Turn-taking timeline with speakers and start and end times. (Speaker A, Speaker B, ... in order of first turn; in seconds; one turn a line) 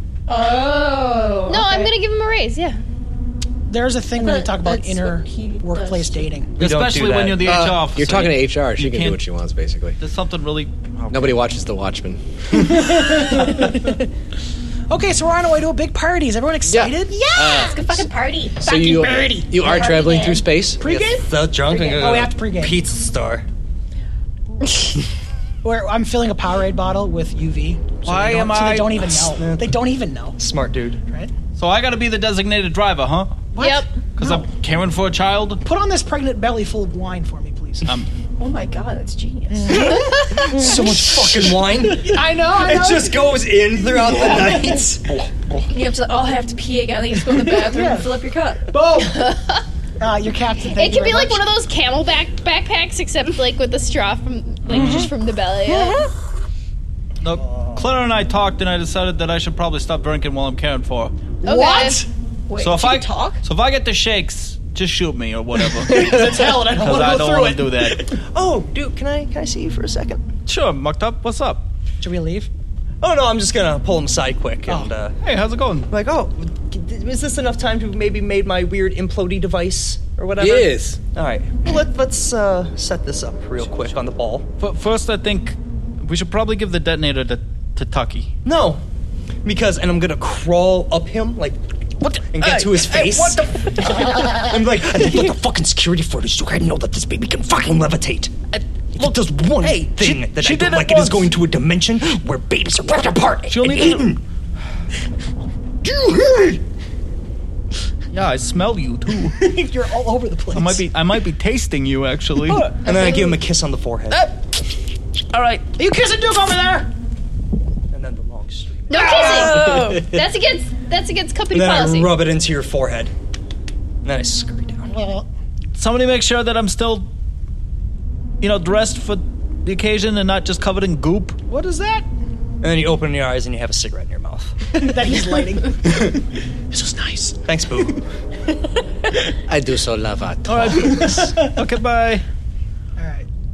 Speaker A: 0.3-1.9
Speaker B: 1.5-2.8
Speaker C: 3.7-6.5
Speaker A: 4.2-6.3
Speaker D: 6.6-7.6
Speaker E: 6.6-9.2
Speaker F: 7.4-10.0
Speaker E: 10.0-11.4
Speaker F: 11.1-13.0
Speaker C: 12.5-14.0
Speaker C: 14.9-18.1
Speaker F: 16.7-17.9
Speaker A: 17.1-20.6
Speaker F: 18.6-20.8
Speaker C: 18.7-19.6
Speaker C: 20.8-22.8
Speaker D: 20.8-23.4
Speaker C: 25.6-30.4
Speaker E: 28.1-29.2
Speaker D: 29.3-29.8
Speaker D: 30.4-31.0
Speaker E: 31.6-33.5
Speaker C: 33.5-34.5
Speaker B: 33.6-33.9
Speaker E: 34.2-35.6
Speaker C: 35.6-37.9
Speaker A: 38.4-40.1
Speaker C: 39.5-43.3
Speaker D: 40.3-45.2
Speaker C: 44.2-44.6
Speaker A: 45.7-48.7
Speaker C: 47.3-48.2
Speaker C: 48.7-49.3
Speaker B: 49.0-49.6
Speaker C: 50.0-51.5
Speaker B: 50.8-56.0
Speaker E: 54.7-55.1
Speaker C: 54.7-55.1
Speaker A: 55.7-56.1
Speaker E: 57.2-61.1
Speaker D: 57.5-57.8
Speaker B: 61.4-62.0
Speaker C: 61.4-62.1
Speaker A: 62.5-63.4
Speaker E: 62.6-68.0
Speaker D: 65.8-66.5
Speaker C: 65.9-67.9
Speaker D: 68.2-70.2
Speaker E: 70.5-71.7
Speaker C: 72.0-72.5
Speaker D: 73.0-75.2
Speaker C: 74.7-74.9
Speaker E: 75.2-75.9
Speaker D: 75.9-84.5
Speaker F: 80.4-81.0
Speaker E: 84.6-88.3
Speaker D: 88.4-88.8
Speaker D: 89.4-91.6
Speaker E: 92.0-93.9
Speaker D: 92.3-98.4
Speaker D: 99.0-104.2
Speaker E: 99.0-101.4
Speaker E: 103.5-104.2
Speaker D: 105.8-106.6
Speaker E: 108.1-109.4
Speaker C: 109.3-110.8
Speaker E: 110.5-112.8
Speaker D: 112.8-114.2
Speaker E: 115.3-115.6
Speaker C: 115.8-116.9
Speaker D: 117.9-119.6
Speaker B: 118.9-122.2
Speaker A: 118.9-120.1
Speaker D: 121.5-123.1
Speaker D: 124.0-124.9
Speaker C: 124.9-125.3
Speaker E: 125.8-127.1
Speaker E: 128.4-131.4
Speaker C: 131.5-132.1
Speaker D: 132.6-134.6
Speaker C: 134.7-137.4
Speaker D: 137.5-138.0
Speaker F: 139.5-141.2
Speaker E: 140.5-142.2
Speaker C: 140.8-141.5
Speaker C: 143.0-143.3